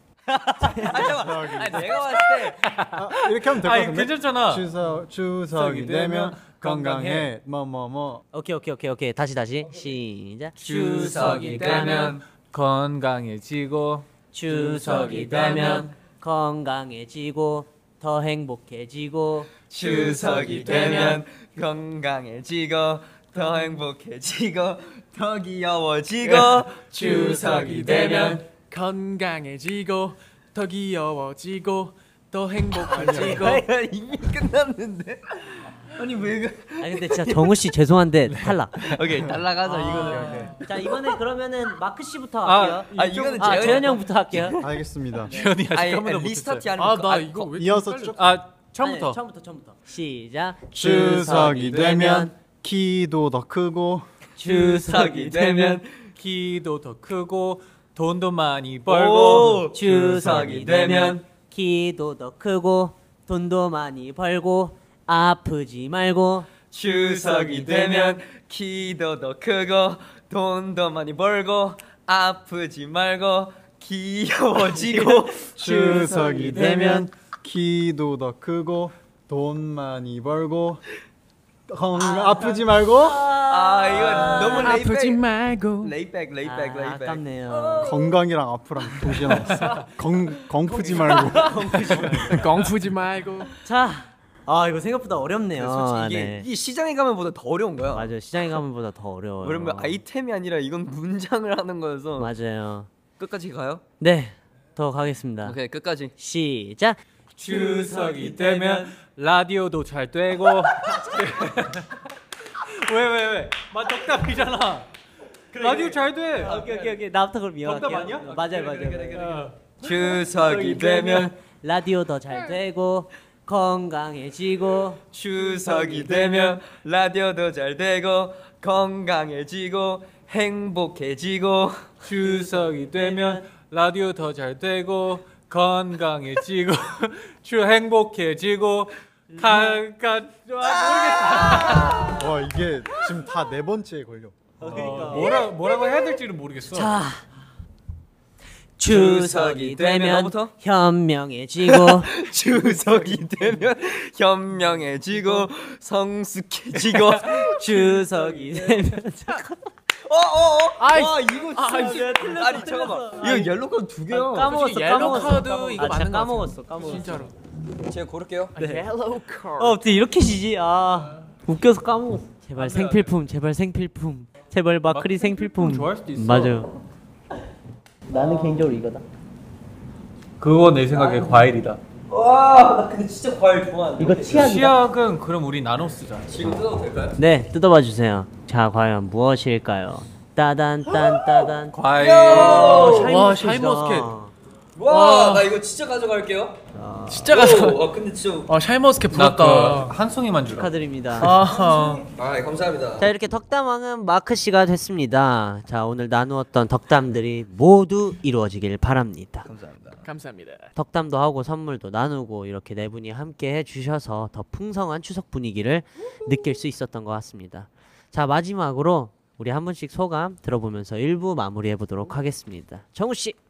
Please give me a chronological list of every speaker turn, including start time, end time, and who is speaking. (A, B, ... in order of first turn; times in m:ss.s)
0:00.3-0:02.6 A
0:00.7-0:01.0 B
0:01.1-0:02.0 C
0:02.6-0:04.7 D
0:02.9-0:08.2 C
0:05.5-0:07.3 D
0:08.3-0:12.1 B
0:10.6-0:12.2 A
0:10.6-0:14.1 D
0:14.3-0:19.5 B
0:14.6-0:15.8 D
0:15.2-0:15.7 A
0:19.7-0:28.4 A
0:19.8-0:21.2 E
0:20.4-0:21.0 B
0:26.3-0:33.7 E
0:32.9-0:37.5 A
0:36.8-0:38.9 B
0:38.3-0:38.6 D
0:38.8-0:40.8 A
0:39.6-0:44.6 B
0:40.0-0:40.5 E
0:42.4-0:43.9 D
0:42.9-0:44.6 A
0:44.6-0:45.4 C
0:45.3-0:46.6 D
0:45.7-0:47.5 A
0:46.8-0:48.2 E
0:47.5-0:48.3 C
0:48.2-0:49.2 D
0:48.8-0:52.3 B
0:50.7-0:54.0 C
0:54.4-0:55.8 B
0:54.4-0:56.1 A
0:56.2-0:59.7 D
0:58.9-1:01.2 A
0:59.7-1:06.5 B
1:06.7-1:15.5 A
1:14.9-1:17.1 B
1:15.5-1:20.8 C
1:21.7-1:23.3 C
1:22.0-1:24.8 B
1:23.4-1:25.2 A
1:24.4-1:25.9 E
1:25.8-1:28.0 A
1:26.4-1:28.0 B
1:27.8-1:32.4 C
1:29.2-1:29.4 B
1:30.8-1:32.4 B
1:31.2-1:31.5 E
1:32.2-1:33.5 E
1:33.6-1:36.5 B
1:35.5-1:38.1 A
1:37.9-1:40.0 B
1:39.4-1:42.3 A
1:42.2-1:42.9 B
1:43.2-1:43.8 A
1:44.0-1:45.6 B
1:45.4-1:46.1 A
1:46.2-1:47.0 B
1:47.4-1:52.0 D
1:48.4-1:48.8 B
1:52.6-1:54.9 D
1:55.5-1:56.6 D
1:55.5-1:57.0 A
1:56.4-1:59.3 B
1:57.6-1:58.2 D
1:57.9-2:01.3 A
1:59.1-1:59.6 D
2:00.4-2:05.0 B
2:05.1-2:11.9 A
2:05.8-2:06.4 D
2:12.0-2:22.1 D
2:12.2-2:13.5 B
2:19.3-2:19.8 B
2:20.9-2:22.1 A
2:22.1-2:25.2 C
2:24.6-2:25.3 B
2:24.6-2:27.0 D
2:26.7-2:27.2 B
2:28.8-2:32.1 B
2:28.8-2:30.5 A
2:31.6-2:38.8 A
2:37.5-2:39.6 B
2:40.0-2:44.6 A
2:40.8-2:42.7 E
2:41.8-2:43.5 B
2:44.1-2:47.3 B
2:44.3-2:47.3 E
2:47.8-2:48.6 A
2:48.6-2:49.5 E
2:48.6-2:48.9 B
2:49.5-2:56.7 B
2:52.5-2:53.1 D
2:54.9-2:56.6 D
2:58.1-2:59.0 B
3:00.4-3:01.8 D
3:00.9-3:01.4 A
3:02.1-3:04.6 A
3:04.0-3:04.7 B
3:04.3-3:06.5 D
3:06.3-3:07.2 A
3:07.2-3:14.3 B
3:11.7-3:13.1 D
3:11.9-3:13.2 A
3:12.9-3:14.1 E
3:14.8-3:16.6 A
3:14.9-3:15.5 E
3:16.7-3:17.3 B
3:17.1-3:17.8 E
3:17.3-3:18.5 A
3:18.5-3:19.9 E
3:19.1-3:22.0 D
3:20.5-3:21.3 B
3:21.2-3:22.0 E
3:22.0-3:23.1 A
3:23.0-3:29.5 B
3:29.4-3:30.0 A
3:30.0-3:30.7 E
3:30.7-3:43.4 B